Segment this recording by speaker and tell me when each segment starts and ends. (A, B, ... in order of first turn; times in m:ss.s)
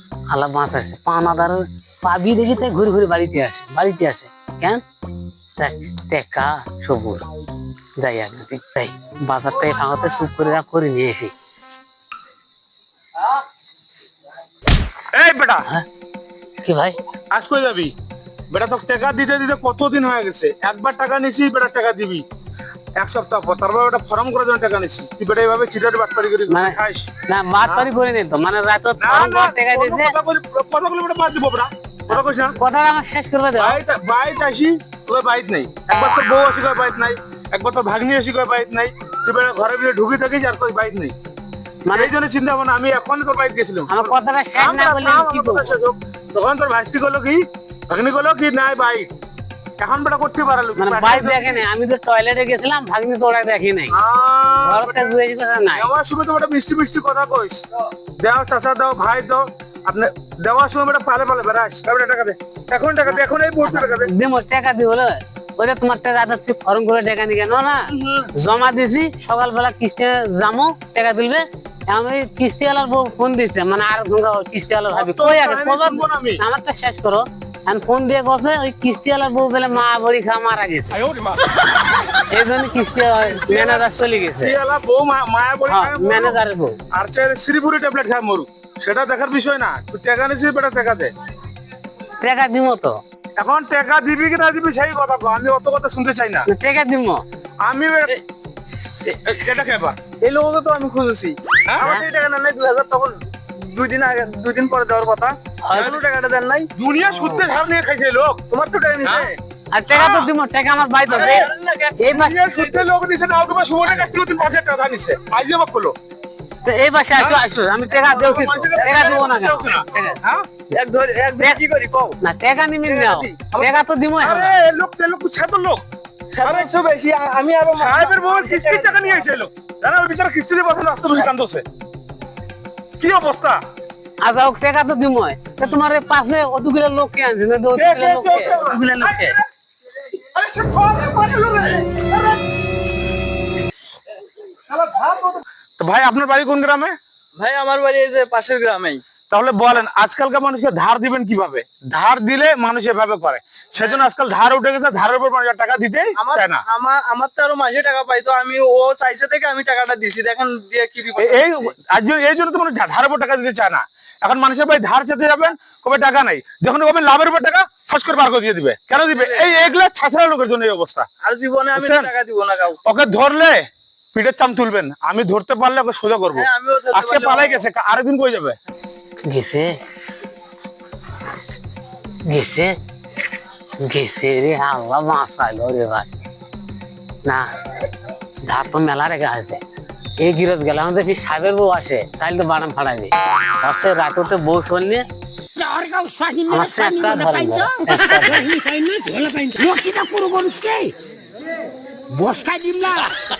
0:00.3-0:04.8 A
0:05.6-0:07.2 A
0:08.0-0:11.3 A
0:15.1-0:15.6 B
0:16.6-0:17.0 A
0:17.3-0:17.9 B
0:18.5-0:22.2 B
0:23.0-0:27.1 B
0:26.5-0:30.1 A
0:27.6-0:27.9 B
0:29.0-0:32.6 B
0:32.1-0:33.8 A
0:33.6-0:41.1 B
0:41.9-0:42.1 A
0:41.9-0:49.1 B
0:43.9-0:45.8 A
0:49.8-0:51.6 B
0:50.8-0:53.9 A
0:53.9-0:55.2 B
0:54.6-0:55.9 A
0:55.7-0:57.6 B
0:58.2-1:04.1 B
1:03.1-1:21.0 A
1:07.9-1:08.3 B
1:14.9-1:16.4 B
1:22.3-1:24.6 A
1:23.3-1:23.8 B
1:24.4-1:26.4 B
1:25.7-1:26.8 A
1:26.9-1:31.1 B
1:32.2-1:33.0 A
1:33.4-1:36.5 B
1:36.5-1:37.2 A
1:37.6-1:38.1 B
1:39.0-1:40.0 B
1:40.2-1:46.7 C
1:41.8-1:42.0 A
1:45.6-1:46.0 A
1:45.7-1:46.0 B
1:46.8-1:48.4 B
1:47.1-1:47.4 A
1:48.5-1:49.4 C
1:49.7-1:52.4 A
1:49.9-1:50.3 B
1:51.1-1:51.4 B
1:51.1-1:52.8 C
1:52.1-1:55.9 B
1:53.8-1:54.1 A
1:56.6-2:00.2 A
1:57.2-1:57.4 B
1:57.9-1:59.1 C
1:58.1-2:00.5 B
2:00.7-2:02.2 C
2:02.2-2:04.5 A
2:02.8-2:03.8 C
2:04.2-2:05.8 B
2:06.3-2:09.3 C
2:06.4-2:06.7 B
2:07.8-2:11.6 B
2:13.0-2:13.6 B
2:14.2-2:19.4 A
2:17.7-2:19.4 B
2:20.2-2:22.3 B
2:24.7-2:27.0 B
2:27.4-2:29.0 C
2:29.3-2:36.6 B
2:33.8-2:34.1 C
2:36.2-2:41.7 C
2:41.2-2:51.1 B
2:49.1-2:49.7 C
2:51.2-2:52.8 C
2:51.7-2:52.1 B
2:52.8-2:53.6 B
2:54.1-2:58.6 B
2:56.3-2:57.6 C
2:59.3-2:59.7 A
3:02.3-3:02.7 A
3:03.8-3:06.2 A
3:08.5-3:09.6 A
3:10.2-3:15.0 A
3:15.6-3:21.0 D
3:16.5-3:18.5 A
3:22.1-3:23.1 D